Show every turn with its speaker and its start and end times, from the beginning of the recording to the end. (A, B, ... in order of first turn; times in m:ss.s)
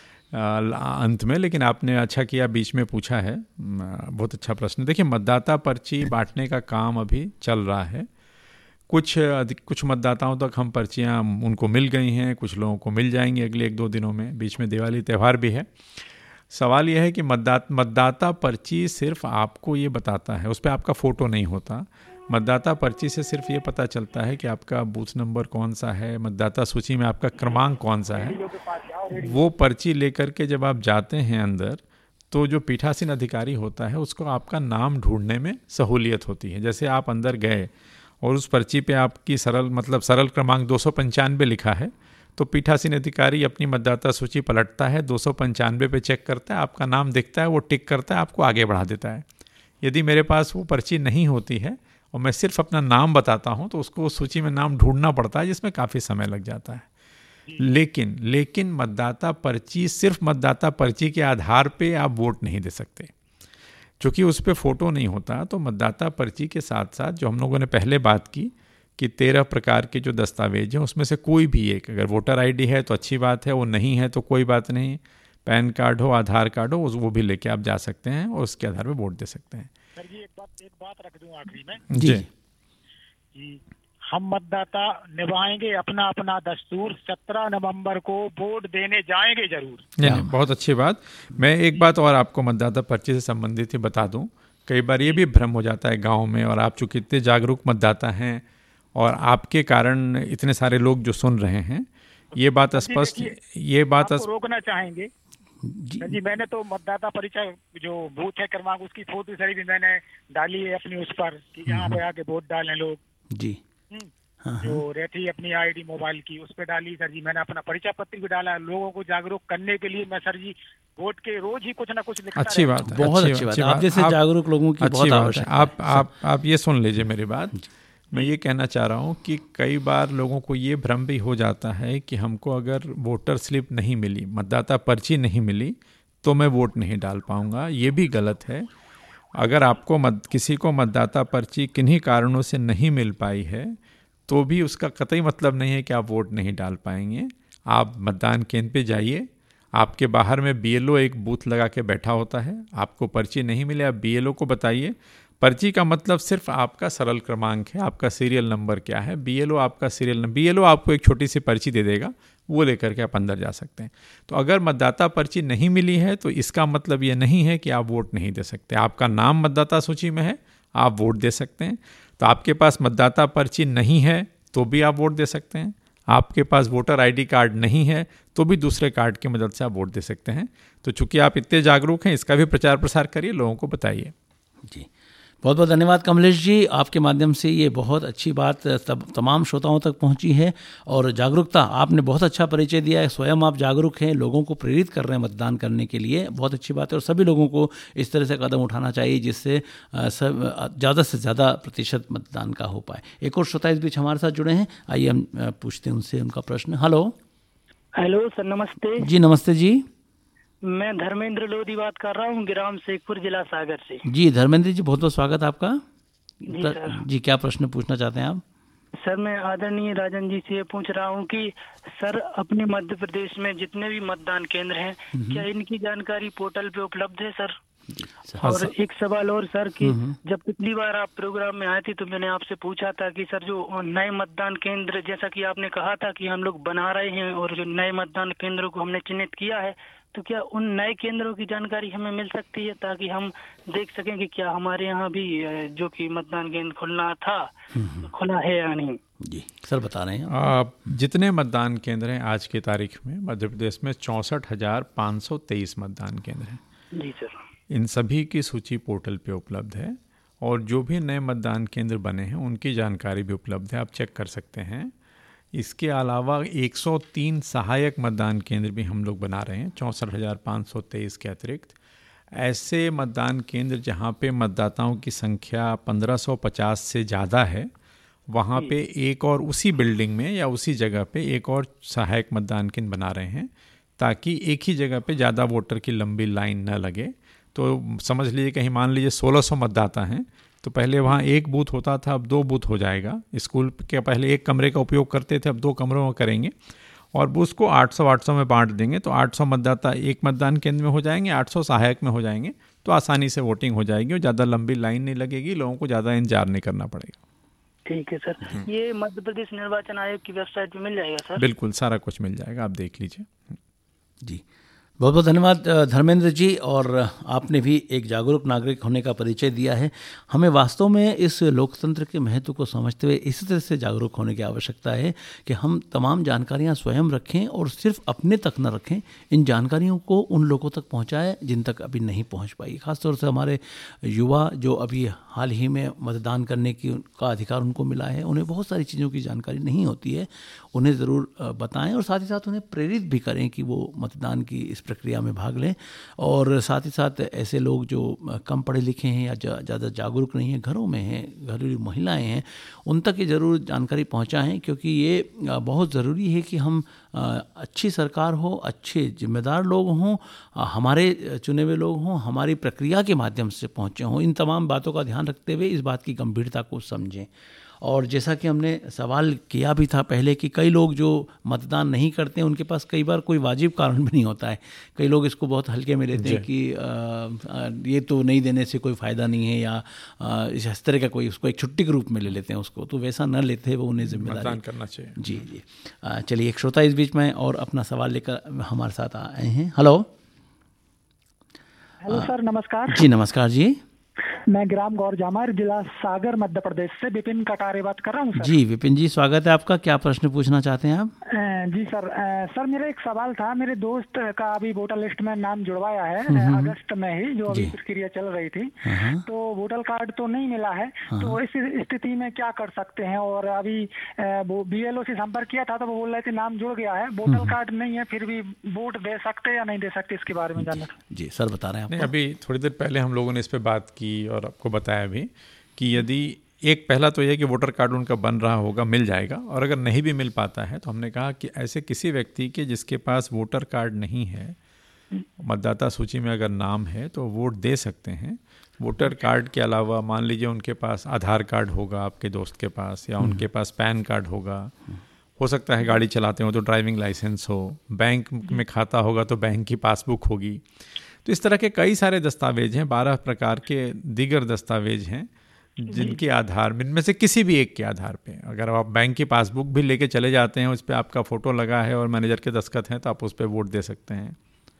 0:00.3-0:08.1 A
0:08.9-0:28.4 A
0:29.1-0:49.2 A
0:49.8-0:56.9 A
0:57.6-1:03.1 A
1:04.0-1:19.7 A
1:20.0-1:21.8 B
1:21.9-1:22.2 A
1:21.9-1:22.3 C
1:23.3-1:29.9 B
1:30.0-1:38.4 A
1:30.0-1:30.3 C
1:38.9-1:44.2 A
1:42.7-1:43.3 B
1:44.0-1:45.1 B
1:45.6-1:46.2 C
1:46.0-1:53.0 B
1:51.7-1:52.0 C
1:53.3-1:53.6 C
1:54.4-1:54.8 C
1:54.6-2:02.9 B
2:02.3-2:04.2 A
2:02.8-2:06.1 C
2:04.8-2:18.7 A
2:19.3-3:04.1 A
3:05.4-3:27.2 C
3:28.0-3:29.1 D
3:29.0-3:29.9 C
3:30.6-3:34.0 D
3:34.0-3:35.8 C
3:36.4-3:38.4 C
3:36.5-3:37.0 D
3:39.0-3:47.6 D
3:45.1-3:45.4 C
3:47.9-3:48.4 C
3:48.4-4:09.0 D
3:48.4-3:48.7 A
3:49.8-3:50.2 C
4:07.7-4:08.1 C
4:09.2-4:10.5 C
4:10.3-4:16.6 A
4:16.9-4:17.4 D
4:17.7-4:24.9 A
4:25.5-4:31.8 A
4:32.3-4:37.7 A
4:38.3-4:56.5 A
4:57.1-5:07.2 A
5:07.8-5:11.4 D
5:11.4-5:13.6 A
5:15.0-6:07.3 C
6:07.8-6:24.6 C
6:16.2-6:16.4 A
6:24.0-6:25.2 A
6:25.2-6:30.1 C
6:32.1-6:32.9 B
6:32.9-6:33.8 C
6:34.5-6:38.5 B
6:38.4-6:41.1 C
6:41.5-6:48.7 B
6:46.2-6:46.8 C
6:47.5-6:47.8 C
6:48.8-6:49.2 C
6:49.3-7:00.9 B
6:51.1-6:51.4 C
6:57.3-6:57.6 C
7:00.5-7:02.1 C
7:01.9-7:14.6 A
7:15.4-7:24.7 A
7:25.4-7:30.6 A
7:31.2-7:44.4 A